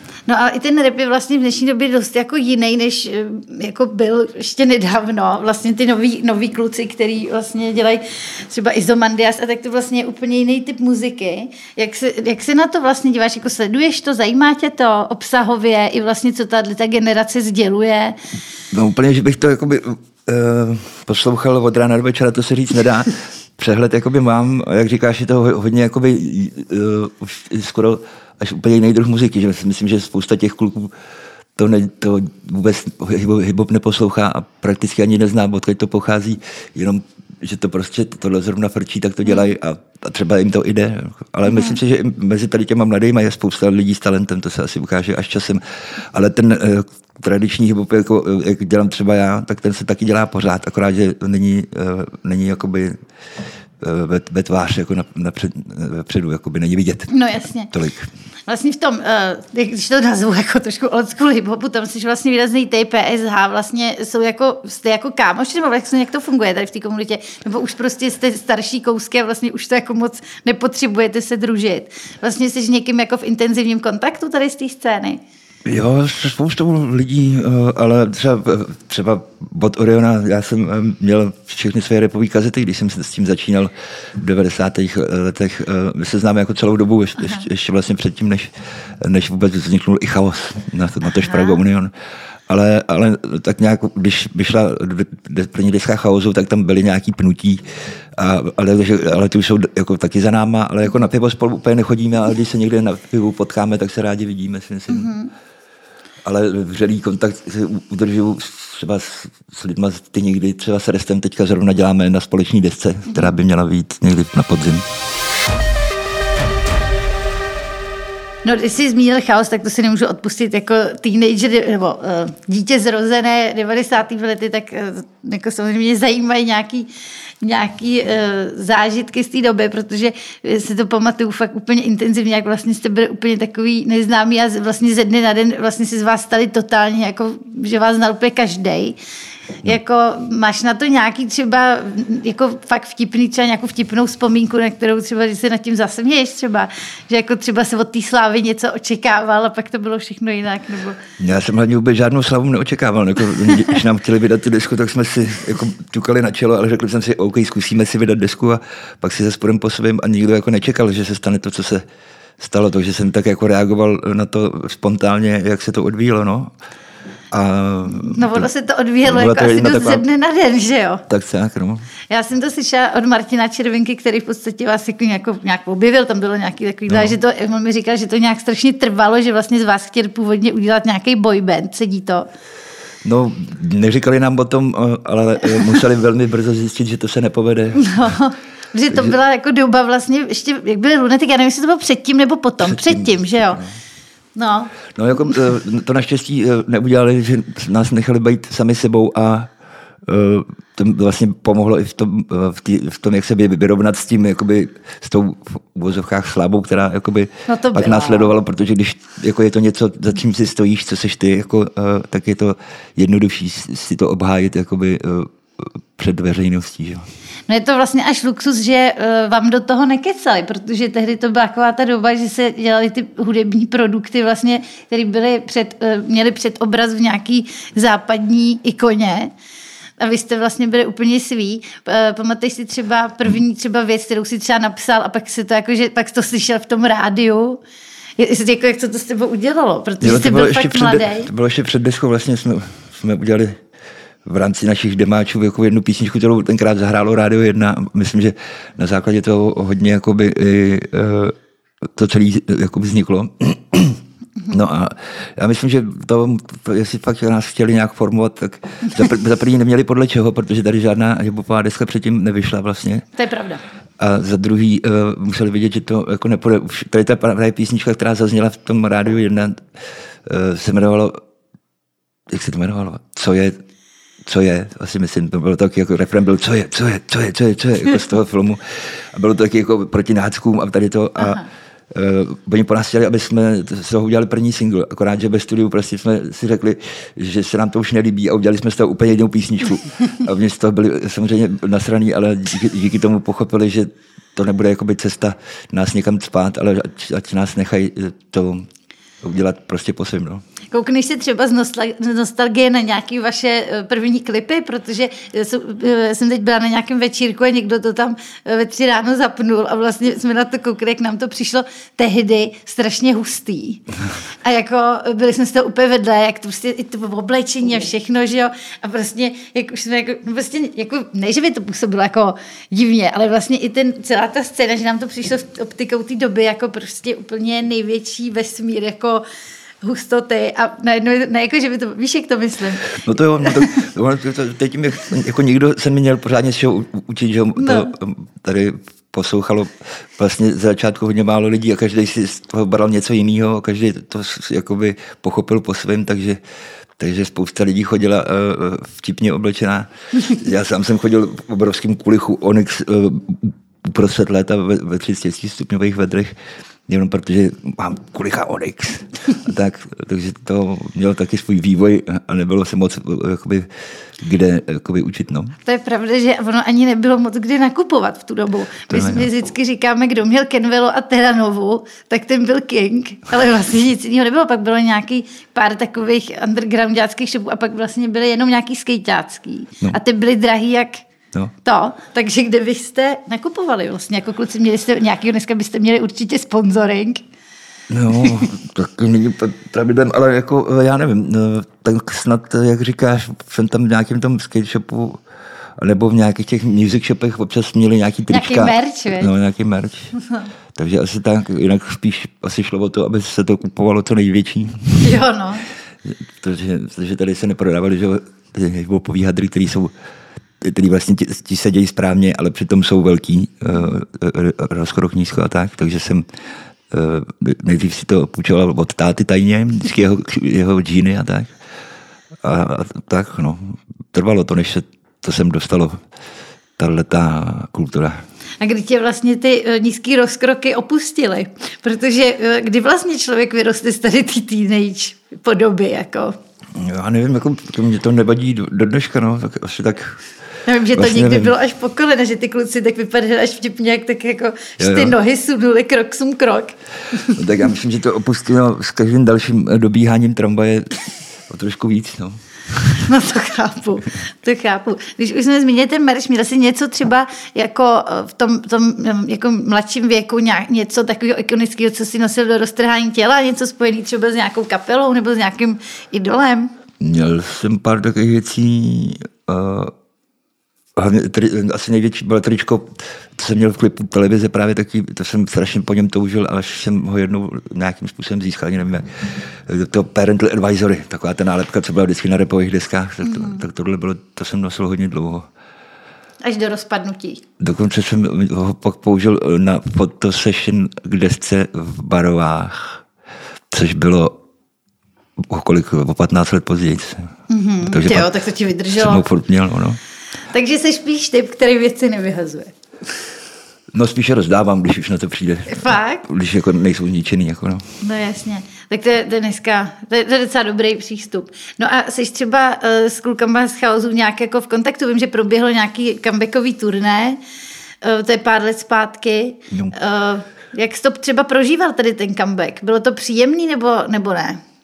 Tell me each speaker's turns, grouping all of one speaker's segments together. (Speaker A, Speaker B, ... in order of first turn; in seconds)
Speaker A: 0.3-18.2, 41.5-41.8, 57.1-57.7, 58.5-75.2, 87.2-87.4, 91.2-91.6, 104.9-105.3, 118.4-126.9, 127.4-138.9, 139.6-151.0, 167.9-171.0, 172.1-182.3, 187.8-193.6, 194.3-194.7, 207.5-208.3, 217.5-229.3, 230.0-237.6, 238.2-241.3, 263.1-263.6, 281.2-281.5, 300.7-313.8, 314.4-329.2, 329.8-333.7, 337.6-337.9, 365.6-381.0, 381.6-387.2, 388.2-388.5, 398.3-399.3, 405.0-405.6, 428.6-436.4, 440.6-447.4, 452.9-466.7, 483.2-483.6, 486.4-487.4, 497.5-499.2, 500.5-502.7, 505.7-506.2, 508.0-517.4, 518.0-524.6
Speaker B: 18.7-30.9, 31.6-53.0, 53.8-57.1, 57.7-58.1, 75.7-91.9, 92.5-97.6, 98.1-105.1, 106.2-114.9, 151.2-161.8, 162.4-166.5, 167.3-168.5, 169.0-170.0, 171.1-171.8, 176.9-177.2, 183.0-188.1, 192.6-193.7, 194.9-199.5, 200.0-217.0, 240.0-243.6, 244.2-263.1, 264.0-269.7, 270.2-271.2, 272.3-273.6, 274.2-298.7, 299.2-300.4, 333.0-346.4, 347.0-356.4, 356.9-365.5, 368.9-369.3, 387.9-395.2, 395.8-400.1, 400.8-405.2, 406.0-409.9, 410.6-416.2, 416.9-421.5, 422.4-426.0, 426.8-428.2, 436.7-440.2, 440.9-441.5, 444.8-445.1, 447.3-453.0, 467.0-469.9, 470.9-485.5, 487.6-493.0, 493.7-494.4, 495.4-497.3, 497.9-498.3, 498.9-500.0, 503.9-507.8